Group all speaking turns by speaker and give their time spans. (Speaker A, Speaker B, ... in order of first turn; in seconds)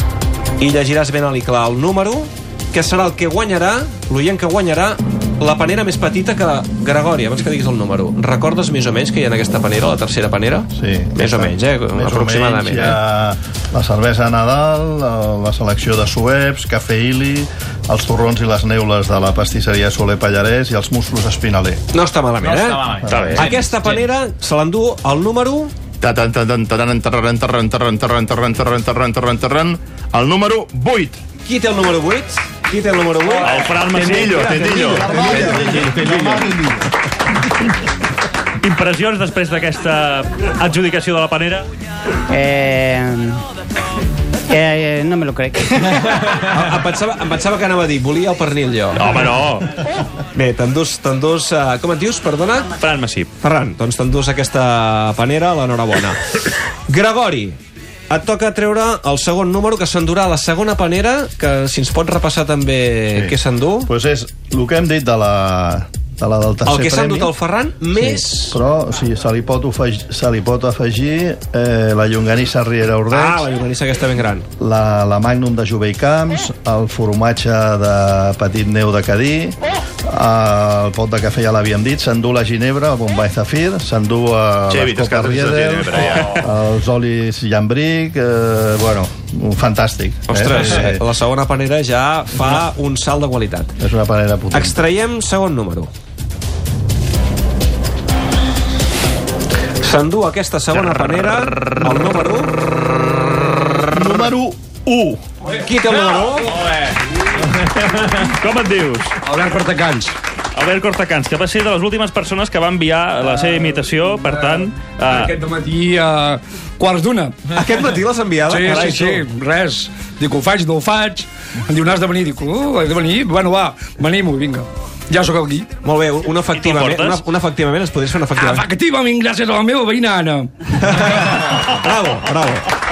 Speaker A: 0.6-13.0, 21.9-22.8, 23.4-25.7, 31.4-33.6, 46.2-49.2, 50.3-52.7, 53.4-57.6, 58.1-63.9, 66.7-68.6, 73.1-74.5, 90.3-93.7, 94.5-95.9, 99.8-102.6, 105.5-106.5, 117.5-119.3, 125.8-128.7, 130.8-132.7
Speaker B: 10.7-21.8, 35.2-36.5, 63.9-67.3, 67.9-73.5, 74.6-91.0, 93.8-94.8, 103.9-105.2
Speaker C: 22.6-23.5, 26.0-31.2, 33.7-36.4, 84.7-86.5
Speaker D: 22.7-23.9, 33.4-35.4, 38.6-41.7, 49.0-49.7, 52.8-53.3, 108.0-109.1, 110.5-115.4, 126.5-127.2
Speaker E: 42.3-43.4, 44.5-46.1
Speaker F: 105.9-106.8, 109.2-110.2, 114.3-117.4, 118.5-125.7, 128.3-130.5